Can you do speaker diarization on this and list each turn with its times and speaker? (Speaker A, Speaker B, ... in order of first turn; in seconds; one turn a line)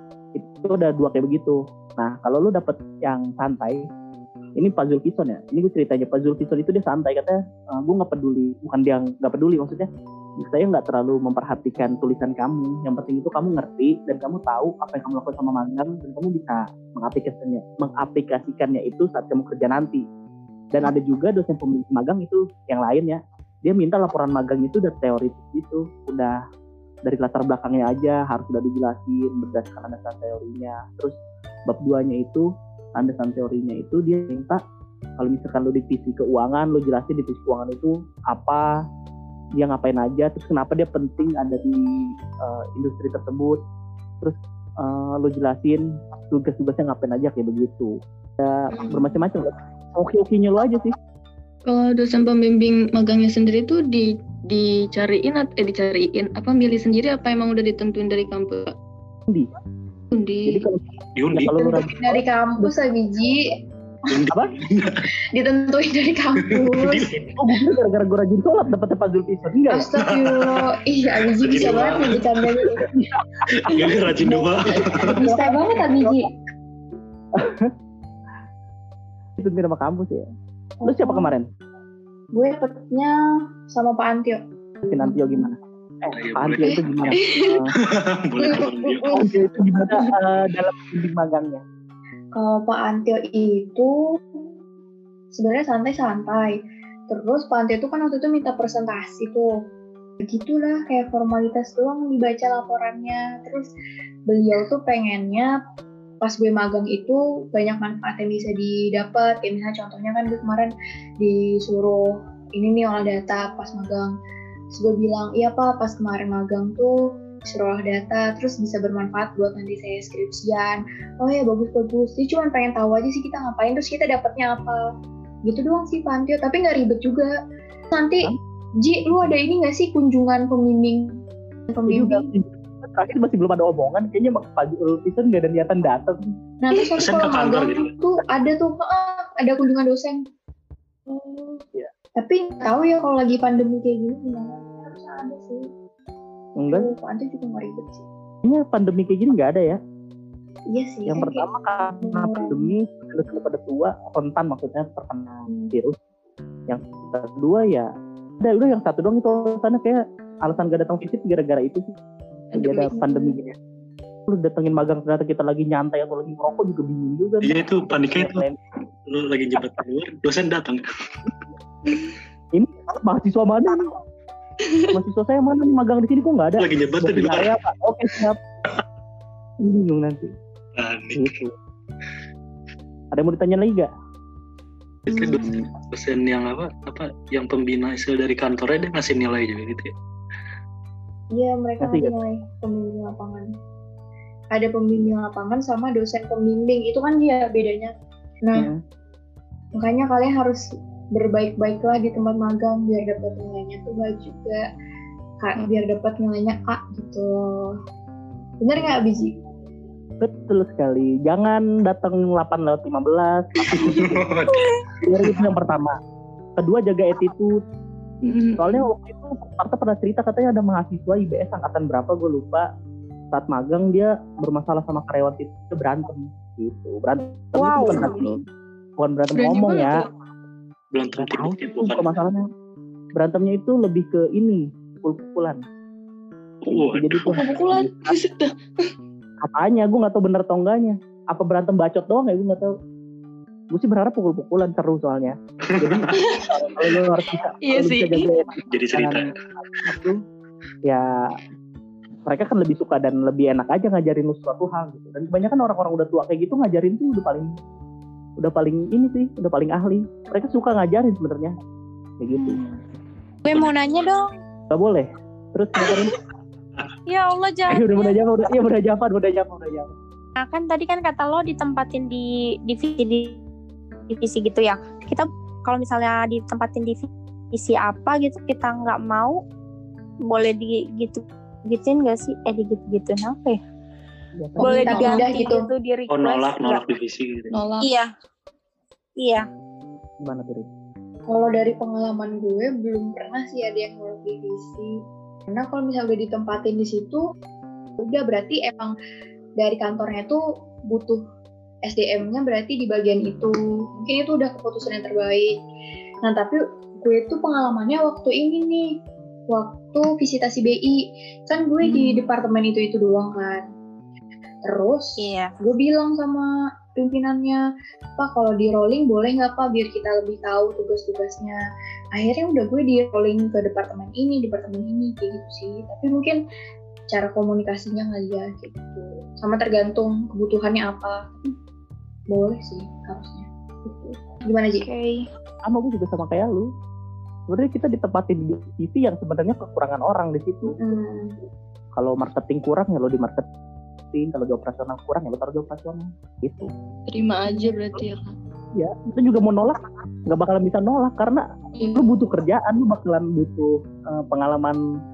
Speaker A: 0.3-3.8
Speaker A: 4.6-9.9
Speaker A: 10.4-20.0
Speaker A: 20.7-26.4
Speaker A: 27.1-31.1
Speaker A: 31.7-34.6
Speaker A: 35.2-38.7
Speaker A: 39.6-43.6
Speaker A: 44.2-50.9
Speaker B: 48.7-49.2
Speaker B: 51.6-58.7
Speaker B: 60.1-60.7
Speaker A: 60.5-60.8
Speaker C: 61.2-61.5
Speaker A: 61.3-62.7
Speaker D: 61.5-63.5
Speaker C: 64.1-65.1
Speaker D: 65.3-67.1
Speaker C: 66.4-67.2
Speaker A: 67.1-69.9
Speaker D: 69.7-72.9
Speaker C: 70.0-72.3
Speaker A: 72.9-76.2
Speaker C: 73.5-75.2
Speaker D: 75.0-76.3
Speaker A: 77.3-77.7
Speaker A: 79.4-80.3
Speaker D: 80.8-81.3
Speaker A: 80.8-81.5
Speaker D: 82.3-83.1
Speaker D: 83.7-84.4
Speaker A: 84.8-87.7
Speaker C: 86.1-87.2
Speaker B: 87.1-87.6
Speaker C: 87.7-89.2
Speaker D: 88.4-89.2
Speaker A: 89.1-91.6
Speaker D: 92.3-94.0
Speaker D: 95.3-99.5
Speaker D: 100.2-103.7
Speaker D: 104.3-105.5
Speaker D: 106.2-114.1
Speaker D: 114.7-124.8
Speaker D: 125.4-127.3
Speaker D: 127.9-132.3
Speaker A: 131.9-136.2
Speaker D: 136.6-140.2
Speaker C: 136.9-137.9
Speaker D: 141.1-141.6
Speaker D: 142.2-145.7
Speaker A: 146.6-146.9
Speaker D: 146.7-148.1
Speaker A: 148.4-149.8
Speaker D: 150.7-152.7
Speaker A: 151.1-156.0
Speaker D: 155.5-155.8
Speaker A: 156.7-157.9
Speaker A: 158.4-161.9
Speaker B: 162.5-163.0
Speaker A: 162.6-163.6
Speaker D: 162.9-163.3
Speaker A: 164.3-168.6
Speaker C: 167.4-168.4
Speaker C: 169.1-170.8
Speaker A: 172.5-173.9
Speaker B: 174.6-175.0
Speaker A: 174.9-178.4
Speaker C: 176.6-177.6
Speaker A: 179.6-180.3
Speaker C: 180.8-181.4
Speaker A: 181.1-181.5
Speaker A: 183.1-183.9
Speaker C: 185.1-189.9
Speaker D: 191.3-193.5
Speaker A: 191.8-192.1
Speaker D: 194.5-197.9
Speaker A: 198.5-198.8
Speaker D: 199.7-204.7
Speaker D: 205.4-207.8
Speaker D: 208.6-209.3
Speaker A: 210.2-214.2
Speaker C: 213.8-214.7
Speaker A: 215.0-215.9
Speaker A: 216.6-217.5
Speaker B: 218.2-218.8
Speaker A: 218.6-222.7
Speaker A: 223.3-228.3
Speaker E: 227.5-228.2
Speaker B: 227.8-228.4
Speaker A: 229.0-230.0
Speaker B: 229.3-230.1
Speaker C: 230.9-232.2
Speaker A: 231.2-232.4
Speaker A: 233.2-235.6
Speaker C: 236.6-237.4
Speaker A: 236.7-238.1
Speaker B: 237.3-238.9
Speaker A: 239.4-242.7
Speaker A: 243.7-250.2
Speaker C: 245.7-246.1
Speaker B: 246.1-247.0
Speaker B: 247.6-248.3
Speaker C: 248.7-249.9
Speaker A: 252.2-257.5
Speaker A: 258.4-261.5
Speaker A: 262.2-262.6
Speaker E: 262.4-262.7
Speaker E: 263.4-264.3
Speaker A: 264.7-266.2
Speaker E: 267.1-268.1
Speaker A: 267.7-269.9
Speaker E: 270.4-273.4
Speaker E: 274.1-279.4
Speaker E: 280.2-283.6
Speaker A: 284.4-284.9
Speaker D: 284.6-285.7
Speaker E: 284.6-286.8
Speaker B: 284.9-285.3
Speaker C: 286.1-287.5
Speaker B: 287.5-287.9
Speaker E: 287.8-288.1
Speaker E: 289.2-289.5
Speaker A: 290.2-290.7
Speaker D: 291.3-297.2
Speaker D: 298.0-298.9
Speaker D: 299.6-301.2
Speaker D: 301.8-305.5
Speaker D: 306.2-308.9
Speaker D: 309.5-313.7
Speaker B: 311.8-312.2
Speaker D: 314.6-317.6
Speaker E: 315.2-315.5
Speaker D: 318.2-321.6
Speaker D: 322.1-326.4
Speaker D: 327.1-331.6
Speaker D: 332.3-334.9
Speaker E: 334.8-335.3
Speaker A: 335.7-336.7
Speaker A: 337.5-340.8
Speaker D: 340.6-341.4
Speaker A: 341.9-343.5
Speaker A: 344.1-346.7
Speaker B: 347.1-348.3
Speaker A: 348.7-354.8
Speaker B: 351.8-352.2